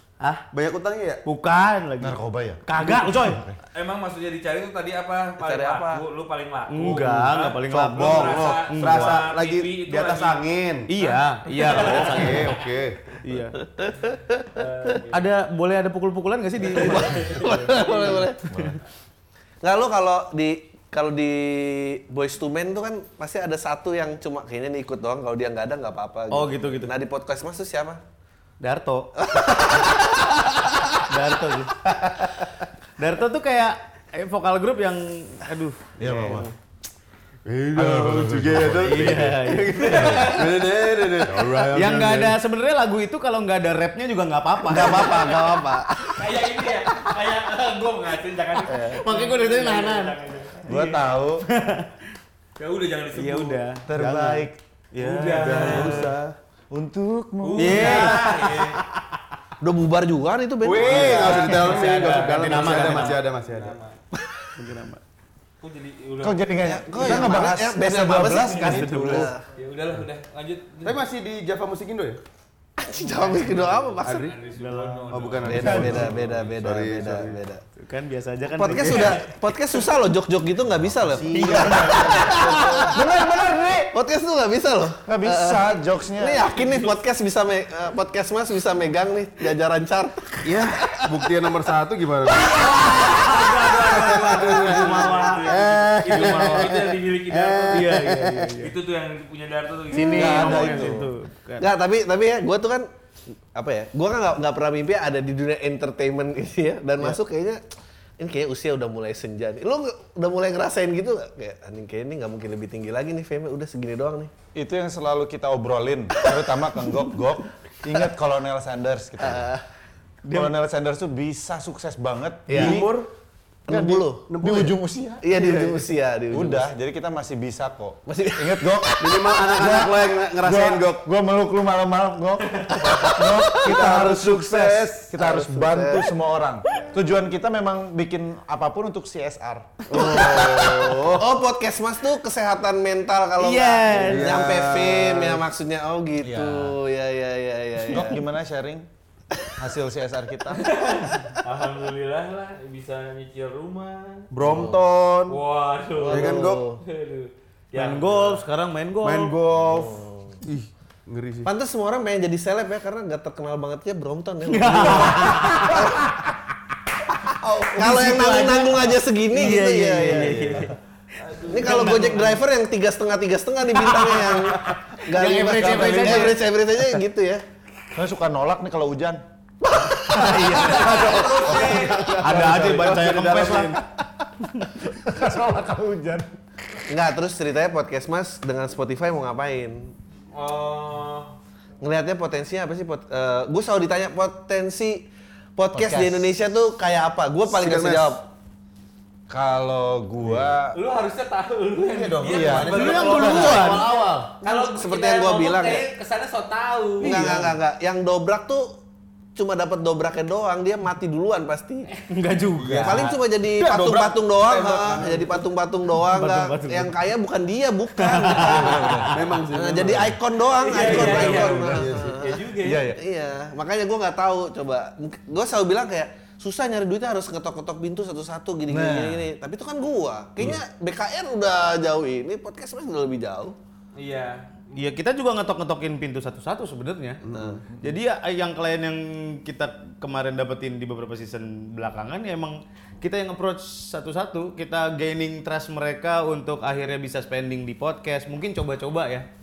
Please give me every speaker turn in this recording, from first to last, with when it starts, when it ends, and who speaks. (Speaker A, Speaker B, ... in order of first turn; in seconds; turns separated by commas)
Speaker A: 0.5-1.2, Speaker B: 1.2-3.5, Speaker C: 2.0-2.6, Speaker D: 3.7-12.6, Speaker E: 5.4-6.0, Speaker B: 6.7-9.3, Speaker A: 6.8-10.9, Speaker B: 10.9-12.6, Speaker A: 11.6-13.2, Speaker B: 13.2-13.6, Speaker E: 13.8-14.7, Speaker D: 14.5-15.3, Speaker B: 15.1-18.2, Speaker D: 16.6-18.2, Speaker E: 16.7-18.7, Speaker C: 18.5-18.8, Speaker E: 19.6-28.0, Speaker B: 26.3-26.9, Speaker B: 28.6-29.2, Speaker E: 29.2-30.9, Speaker B: 31.1-31.8, Speaker B: 33.0-36.5, Speaker C: 36.0-36.5, Speaker A: 37.5-42.4, Speaker C: 37.8-39.0, Speaker B: 38.8-40.5, Speaker D: 39.8-40.7, Speaker B: 41.3-45.4, Speaker E: 44.7-46.3, Speaker D: 45.2-45.5, Speaker D: 46.1-50.6, Speaker E: 48.7-48.9, Speaker B: 48.7-51.9, Speaker C: 50.7-51.4, Speaker D: 52.6-53.6, Speaker B: 53.1-53.9, Speaker C: 53.9-54.6, Speaker A: 53.9-54.5, Speaker B: 54.9-56.1, Speaker D: 55.0-56.1, Speaker A: 55.3-56.4, Speaker C: 56.7-58.1, Speaker D: 57.4-58.8, Speaker B: 57.6-58.5, Speaker A: 57.8-58.8, Speaker E: 59.6-61.6, Speaker A: 60.6-63.8, Speaker D: 60.8-64.0, Speaker B: 60.9-63.2, Speaker E: 64.2-64.5, Speaker B: 64.5-65.0, Speaker D: 65.6-66.5, Speaker C: 66.2-69.3, Speaker E: 66.6-69.5, Speaker B: 68.6-69.3, Speaker D: 69.5-71.0, Speaker A: 70.8-72.2, Speaker E: 72.8-74.3, Speaker D: 72.9-76.4, Speaker A: 74.0-74.3, Speaker B: 74.5-76.1, Speaker A: 75.1-77.5, Speaker E: 75.5-77.6, Speaker B: 77.7-79.3, Speaker E: 78.5-83.0, Speaker D: 78.8-79.3, Speaker A: 81.0-82.5, Speaker C: 81.3-82.0, Speaker B: 81.3-82.9, Speaker C: 82.8-83.9, Speaker E: 83.9-91.2, Speaker C: 85.1-86.5, Speaker D: 86.6-87.0, Speaker A: 90.4-92.7, Speaker D: 92.4-98.0, Speaker B: 92.5-96.8, Speaker A: 93.9-98.6, Speaker B: 97.7-98.7, Speaker D: 98.6-100.8, Speaker B: 99.9-101.7, Speaker E: 100.1-102.9, Speaker E: 103.5-107.6, Speaker E: 108.2-114.3, Speaker C: 114.5-119.5, Speaker E: 119.2-119.6, Speaker B: 120.2-120.5, Speaker C: 120.3-123.0, Speaker A: 122.5-123.1, Speaker E: 123.7-124.3, Speaker C: 123.7-125.3, Speaker A: 123.8-124.8, Speaker E: 125.2-126.7, Speaker A: 125.3-125.8, Speaker C: 126.3-139.8, Speaker E: 128.1-128.9, Speaker A: 129.0-131.0, Speaker A: 133.5-135.1, Speaker E: 135.1-136.1, Speaker A: 139.9-141.3, Speaker E: 139.9-148.2, Speaker B: 143.4-144.6, Speaker A: 144.1-145.4, Speaker C: 146.2-146.8, Speaker C: 147.9-148.9, Speaker C: 149.6-150.7, Speaker D: 150.5-154.3, Speaker A: 154.3-155.4, Speaker E: 154.4-154.8, Speaker D: 155.3-158.4, Speaker E: 156.0-156.8, Speaker A: 156.1-156.7, Speaker B: 157.7-159.4, Speaker A: 159.0-161.5, Speaker E: 159.6-160.4, Speaker E: 161.4-166.2, Speaker B: 164.4-166.1, Speaker E: 167.2-170.6, Speaker B: 167.7-170.8, Speaker A: 170.0-170.7, Speaker B: 171.3-172.4, Speaker D: 171.3-172.0, Speaker E: 171.5-177.4, Speaker B: 173.9-176.4, Speaker C: 175.4-176.4, Speaker C: 177.9-179.2, Speaker E: 179.6-180.6, Speaker B: 180.0-181.2, Speaker C: 180.6-182.9, Speaker D: 180.6-182.2, Speaker A: 180.8-183.8, Speaker B: 181.9-183.8, Speaker C: 184.7-186.3, Speaker E: 186.9-189.9, Speaker D: 190.3-191.4, Speaker E: 191.8-198.3, Speaker C: 195.7-196.3, Speaker A: 197.5-198.2, Speaker C: 199.3-200.8, Speaker D: 200.7-207.2, Speaker A: 201.7-203.9, Speaker C: 202.2-203.6, Speaker B: 202.6-204.3, Speaker E: 203.3-205.9, Speaker E: 207.0-208.8, Speaker A: 207.1-207.5, Speaker B: 207.1-207.5, Speaker E: 209.4-211.9, Speaker B: 211.9-213.2, Speaker A: 212.6-215.5, Speaker E: 212.8-233.6, Speaker B: 216.0-217.0, Speaker B: 218.0-219.1, Speaker C: 218.5-219.1, Speaker A: 219.1-220.2, Speaker D: 220.5-222.9, Speaker C: 220.8-222.0, Speaker A: 221.7-222.2, Speaker C: 222.6-223.0, Speaker C: 228.7-229.3, Speaker D: 234.0-234.9, Speaker B: 234.7-237.2, Speaker A: 237.2-237.6, Speaker E: 237.3-237.6, Speaker B: 237.8-249.3